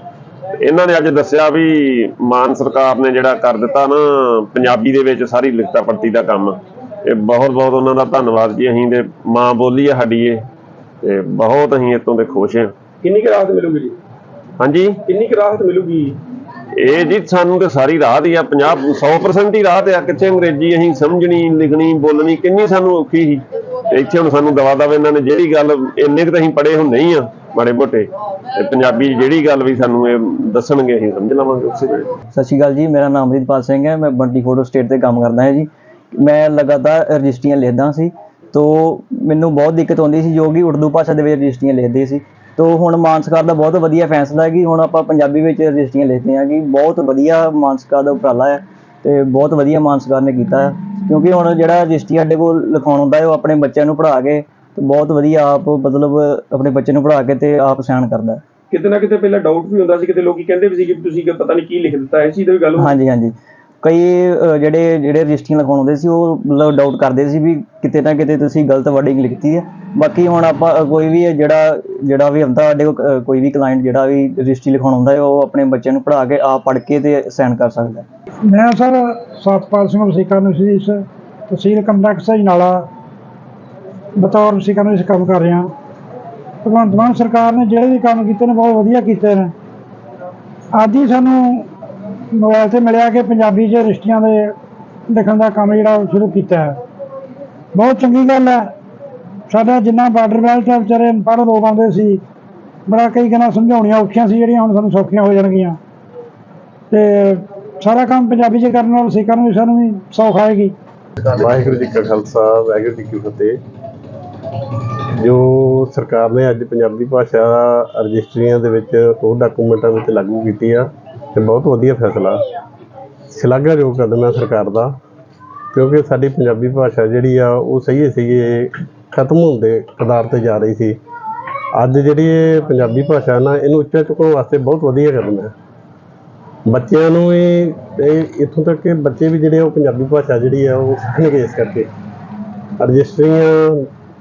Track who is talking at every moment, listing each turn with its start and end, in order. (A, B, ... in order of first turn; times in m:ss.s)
0:00.6-0:10.4 A
0:11.0-0:12.7 A
0:13.0-0:14.0 B
0:14.6-0:15.0 A
0:15.0-0:16.2 B
0:16.8-0:32.1 A
0:32.3-0:58.4 C
0:58.7-1:02.9 B
1:02.8-1:18.1 C
1:18.5-1:22.9 D
1:24.2-1:25.7 D
1:26.6-1:29.5 D
1:30.7-1:31.7 D
1:32.3-1:34.5 D
1:35.1-1:36.8 D
1:37.7-1:38.7 D
1:39.5-1:42.2 D
1:42.9-1:45.8 D
1:46.9-1:50.7 D
1:51.2-1:53.6 E
1:55.2-2:02.4 E
2:03.3-2:04.9 E
2:05.7-2:11.0 E
2:11.8-2:15.5 E
2:16.7-2:21.9 E
2:22.8-2:23.8 E